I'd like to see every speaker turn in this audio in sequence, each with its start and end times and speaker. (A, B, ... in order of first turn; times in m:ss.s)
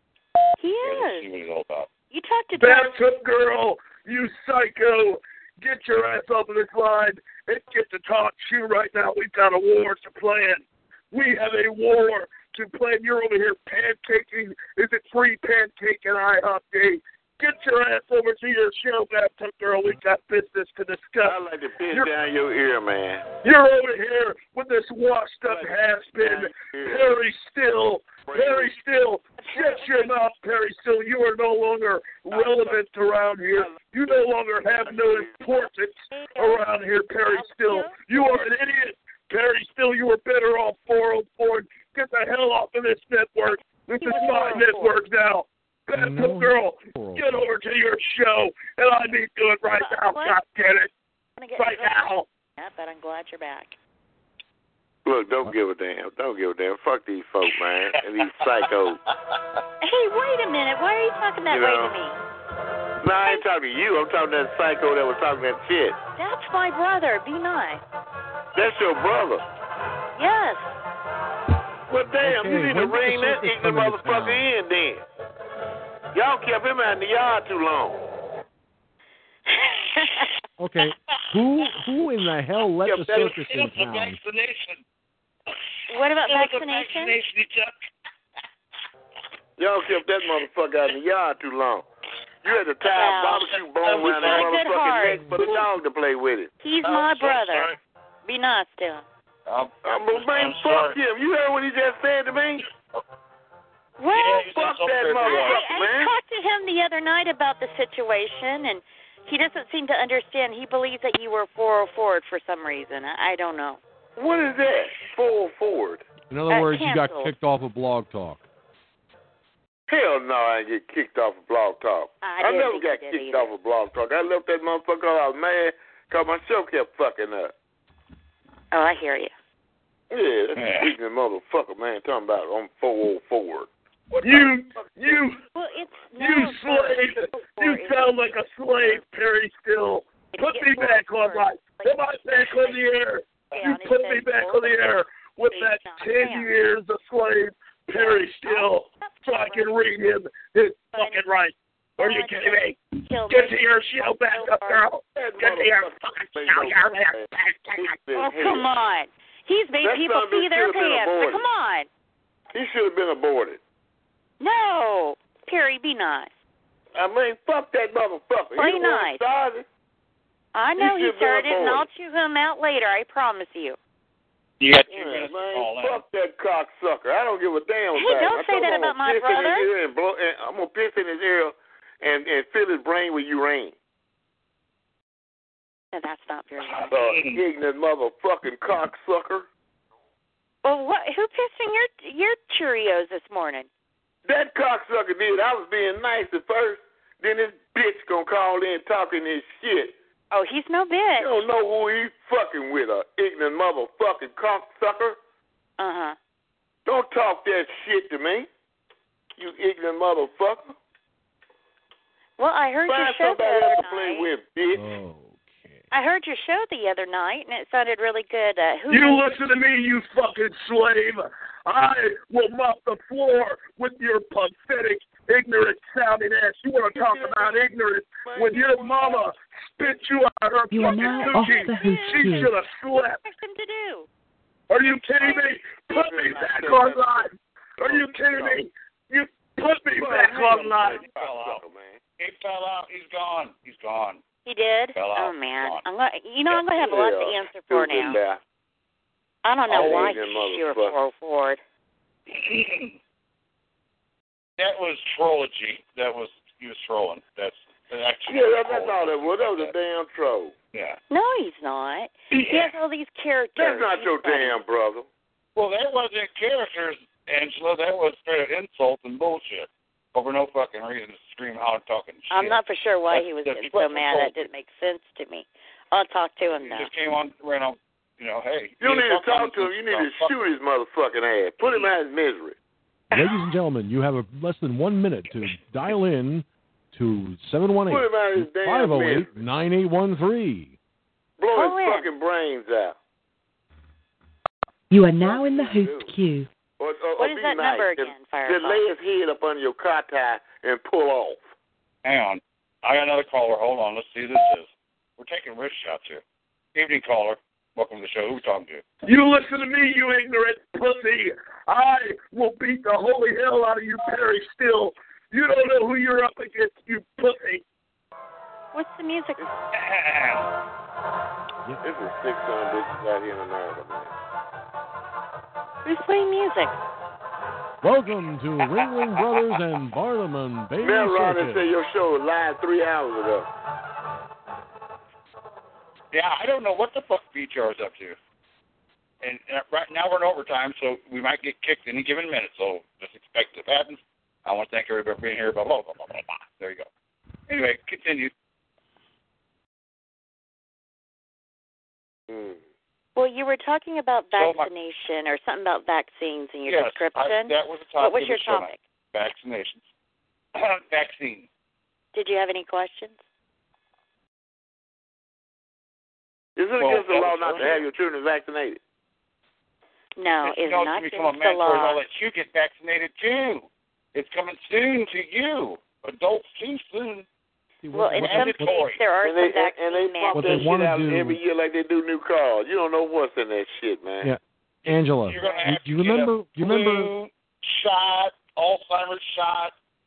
0:00.6-0:01.2 A
0:00.8-0:01.9 B
0:02.1-0:02.9 A
0:02.5-0:21.4 C
0:21.2-0:23.3 D
0:23.4-0:50.9 C
0:25.5-0:27.2 D
0:28.2-0:28.8 D
0:29.4-0:29.9 A
0:32.3-0:32.8 D
0:33.7-0:35.4 D
0:35.5-0:36.7 A
0:37.3-0:38.4 A
0:44.0-0:45.0 A
0:45.9-0:47.5 E
0:49.8-0:50.4 A
0:51.4-0:52.0 A
0:51.6-0:52.2 C
0:52.6-0:53.8 A
0:55.0-0:59.0 D
0:59.8-1:02.2 A
1:01.5-1:01.9 D
1:03.0-1:06.0 D
1:06.2-1:07.8 A
1:08.5-1:09.4 D
1:10.2-1:10.8 A
1:11.9-1:15.0 D
1:12.2-1:14.5 E
1:16.1-1:18.0 D
1:19.5-1:20.3 A
1:20.6-1:24.2 E
1:22.8-1:23.4 D
1:23.3-1:24.8 B
1:25.9-1:27.2 A
1:26.3-1:27.7 B
1:29.6-1:31.9 D
1:32.4-1:36.5 D
1:32.9-1:35.6 A
1:33.9-1:34.5 B
1:36.6-1:37.7 A
1:36.8-1:37.8 B
1:38.2-1:39.0 A
1:39.5-1:41.0 B
1:39.8-1:42.6 D
1:44.0-1:44.6 A
1:44.1-1:45.7 B
1:44.5-1:46.1 D
1:45.2-1:53.8 A
1:54.2-1:56.1 D
1:56.3-1:58.4 E
1:56.5-1:57.3 A
1:59.9-2:07.5 D
2:02.2-2:03.5 A
2:08.7-2:09.3 A
2:10.1-2:13.7 D
2:10.6-2:10.9 B
2:14.2-2:15.4 C
2:14.2-2:15.2 D
2:15.5-2:18.2 A
2:16.2-2:38.0 C
2:20.3-2:22.8 A
2:23.5-2:25.0 A
2:25.5-2:26.5 A
2:27.9-2:29.8 A
2:30.9-2:31.2 A
2:32.0-2:34.8 A
2:35.1-2:38.7 D
2:38.2-2:41.9 A
2:39.8-2:41.5 D
2:42.5-2:43.6 D
2:44.4-2:46.3 A
2:46.9-2:49.6 D
2:48.6-2:49.2 A
2:50.5-2:53.8 A
2:50.8-2:51.9 D
2:54.6-2:56.0 B
2:54.9-3:03.7 D
2:57.9-2:59.7 A
3:05.9-3:07.0 A
3:06.6-3:07.4 B
3:06.9-3:09.4 D
3:10.6-3:13.7 A
3:14.3-3:19.9 D
3:20.3-3:21.3 A
3:21.2-3:25.2 D
3:25.8-3:26.2 A
3:26.9-3:28.5 D
3:29.4-3:30.8 D
3:32.4-3:34.3 A
3:32.9-3:34.9 D
3:34.7-3:35.8 E
3:35.9-3:39.3 A
3:38.9-3:53.2 C
3:46.9-3:47.6 D
3:48.2-3:49.3 D
3:50.7-3:52.6 F
3:50.8-3:52.5 A
3:53.2-3:54.1 A
3:54.7-4:01.0 C
3:55.2-3:57.3 D
3:57.8-3:58.6 D
3:59.9-4:02.0 D
4:00.3-4:01.6 B
4:02.2-4:04.2 B
4:04.4-4:08.2 A
4:04.9-4:05.8 B
4:06.7-4:08.4 D
4:09.4-4:11.6 A
4:09.7-4:11.0 D
4:09.8-4:10.2 B
4:12.3-4:12.9 B
4:14.6-4:19.7 B
4:18.3-4:20.5 D
4:20.7-4:21.0 B
4:21.1-4:24.6 A
4:22.3-4:22.7 D
4:23.6-4:25.1 D
4:25.6-4:32.6 B
4:32.3-4:36.9 A
4:33.1-4:34.4 B
4:36.6-4:40.4 B
4:38.8-4:42.6 D
4:43.1-4:50.8 E
4:43.1-4:43.4 A
4:47.9-4:49.4 D
4:51.4-4:53.0 D
4:51.5-4:52.1 A
4:54.9-4:56.5 F
4:55.2-4:56.1 D
4:56.8-5:01.4 D
4:57.2-4:58.9 A
5:02.0-5:06.2 B
5:06.8-5:08.8 B
5:09.0-5:17.6 C
5:18.7-5:19.5 A
5:19.7-5:20.5 B
5:21.8-5:24.1 D
5:25.8-5:26.8 A
5:27.8-5:31.7 E
5:30.8-5:33.5 D
5:36.1-5:38.2 B
5:39.2-5:46.9 B
5:47.5-5:48.3 B
5:52.3-5:52.6 D
5:53.2-5:58.8 A
5:54.3-5:54.7 B
5:56.7-5:59.8 B
6:00.6-6:01.5 B
6:02.1-6:03.2 A
6:06.6-6:08.8 D
6:06.8-6:07.8 B
6:10.2-6:12.0 A
6:10.4-6:17.3 B
6:17.8-6:18.8 E
6:17.9-6:20.7 A
6:18.1-6:19.0 B
6:19.2-6:24.3 D
6:20.3-6:21.4 E
6:24.2-6:27.1 E
6:25.2-6:29.7 B